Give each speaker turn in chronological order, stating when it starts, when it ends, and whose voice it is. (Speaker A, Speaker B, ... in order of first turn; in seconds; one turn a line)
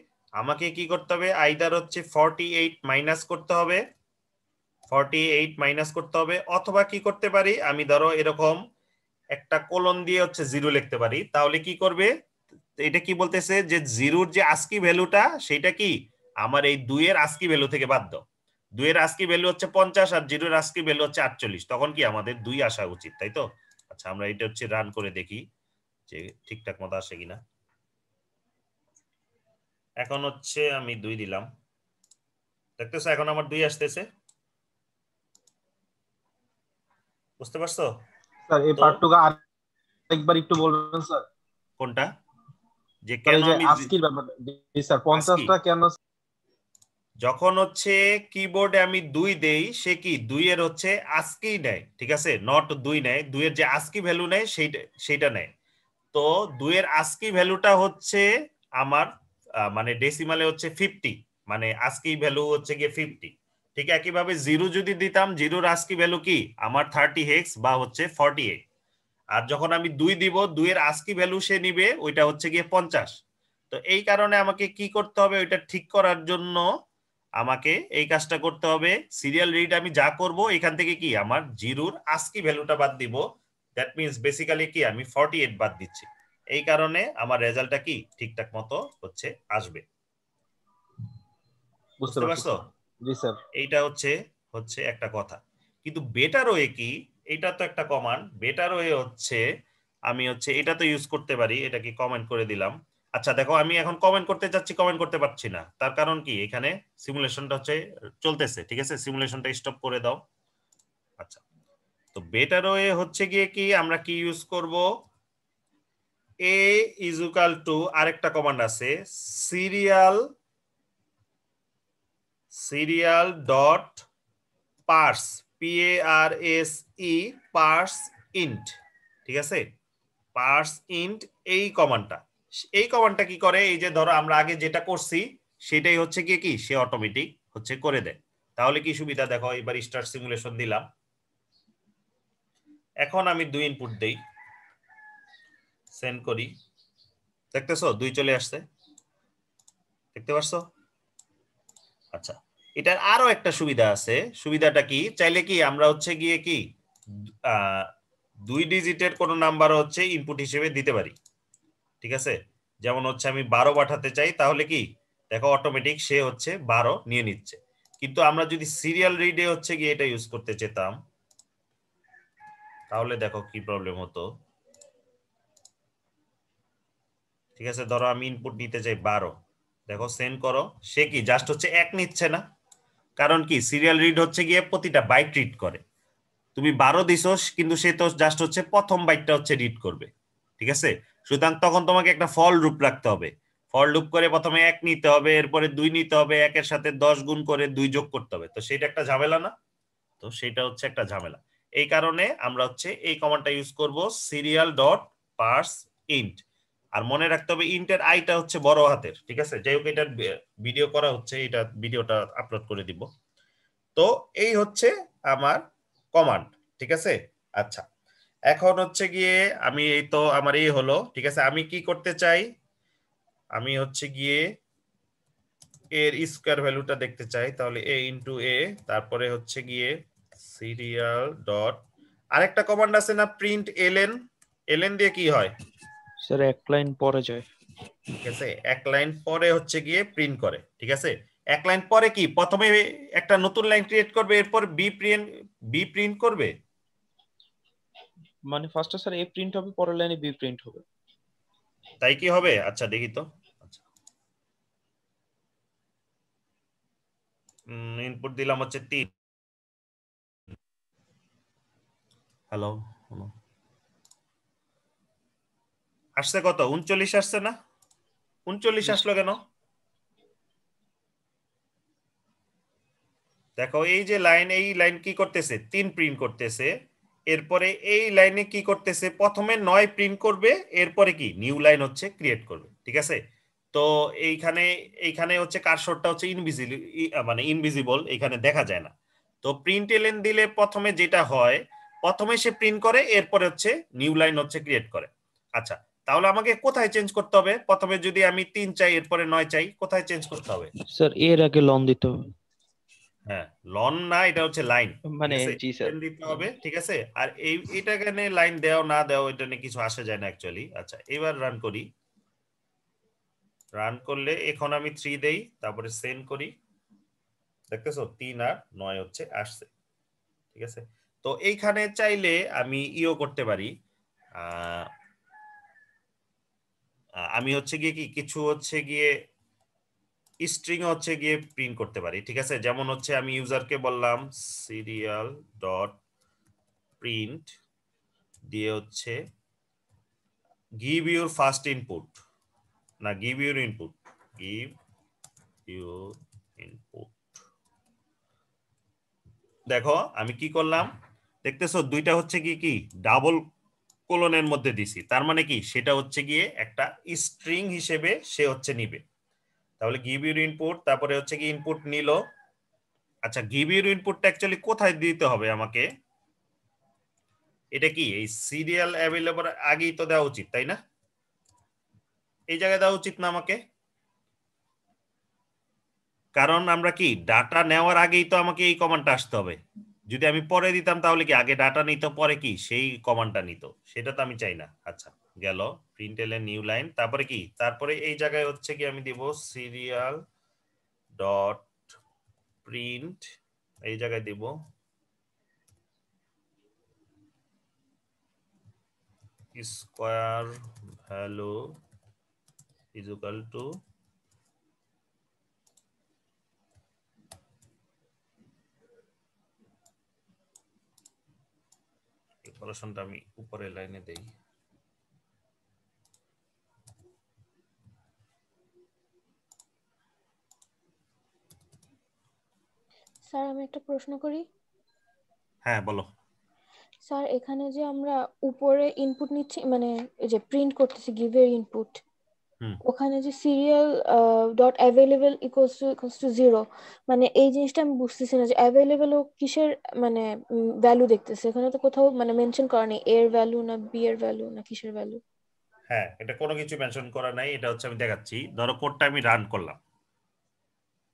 Speaker A: 0.4-3.8
Speaker A: 4.9-8.6
Speaker A: 9.3-12.1
Speaker A: 12.8-15.9
Speaker A: 16.4-18.2
Speaker A: 18.8-25.4
Speaker A: 26.1-27.4
Speaker A: 30.0-31.5
Speaker A: 32.8-34.1
Speaker A: 37.4-37.9
Speaker B: 38.5-39.4
Speaker B: 40.1-41.2
Speaker A: 41.8-42.1
Speaker A: 43.1-43.9
Speaker B: 43.3-46.0
Speaker A: 45.1-45.5
Speaker A: 47.2-55.5
Speaker A: 56.1-58.2
Speaker A: 58.8-59.1
Speaker A: 59.7-68.6
Speaker A: 69.3-73.1
Speaker A: 73.7-76.7
Speaker A: 77.4-83.2
Speaker A: 83.8-89.8
Speaker B: 92.0-93.4
Speaker A: 92.1-92.6
Speaker A: 93.6-99.4
Speaker A: 100.1-110.2
Speaker A: 112.2-114.8
Speaker A: 116.5-120.2
Speaker A: 122.5-124.0
Speaker A: 124.9-128.7
Speaker A: 129.3-129.6
Speaker A: 130.4-132.2
Speaker A: 132.8-140.8
Speaker A: 143.0-144.2
Speaker A: 146.0-146.5
Speaker A: 147.5-148.6
Speaker A: 150.2-150.6
Speaker A: 152.2-156.6
Speaker A: 157.6-157.8
Speaker A: 158.5-161.2
Speaker A: 162.0-170.9
Speaker A: 172.9-174.2
Speaker A: 177.6-179.3
Speaker A: 179.9-182.4
Speaker A: 183.2-185.8
Speaker A: 186.6-190.1
Speaker A: 190.6-199.5
Speaker A: 200.2-206.4
Speaker A: 207.0-210.1
Speaker A: 210.6-213.1
Speaker A: 214.0-215.6
Speaker A: 216.2-217.8
Speaker A: 218.5-222.5
Speaker A: 223.6-224.4
Speaker A: 226.0-229.9
Speaker A: 230.5-231.8
Speaker A: 232.4-234.2
Speaker A: 234.7-235.5
Speaker C: 236.2-237.4
Speaker A: 238.2-246.5
Speaker C: 248.5-250.8
Speaker A: 252.0-253.8
Speaker A: 257.7-259.1
Speaker A: 262.5-263.3
Speaker A: 266.2-267.5
Speaker A: 268.5-269.4
Speaker A: 273.6-276.7
Speaker A: 277.3-283.2
Speaker A: 283.7-288.9
Speaker A: 289.4-300.7
Speaker C: 300.9-302.3
Speaker A: 303.3-311.9
Speaker C: 305.1-306.0
Speaker A: 313.8-316.5
Speaker A: 317.7-319.7
Speaker A: 320.6-323.7
Speaker A: 324.4-324.9
Speaker A: 327.4-329.1
Speaker A: 330.4-335.9
Speaker A: 337.0-337.5
Speaker A: 338.5-339.2
Speaker A: 340.8-342.1
Speaker A: 343.0-344.7
Speaker A: 345.7-347.4
Speaker A: 349.7-350.9
Speaker A: 351.4-353.4
Speaker A: 354.1-359.0
Speaker A: 359.8-362.2
Speaker A: 363.3-365.8
Speaker A: 367.8-370.8
Speaker A: 372.5-373.6
Speaker A: 376.4-379.6
Speaker A: 380.1-390.2
Speaker A: 391.2-391.7
Speaker A: 392.6-393.2
Speaker A: 393.9-394.5
Speaker A: 399.6-400.5
Speaker A: 401.1-401.7
Speaker A: 402.9-403.7
Speaker A: 412.4-414.3
Speaker D: 423.3-424.4
Speaker A: 425.7-426.1
Speaker D: 427.1-432.0
Speaker D: 432.9-440.3
Speaker D: 440.8-445.2
Speaker A: 445.9-449.8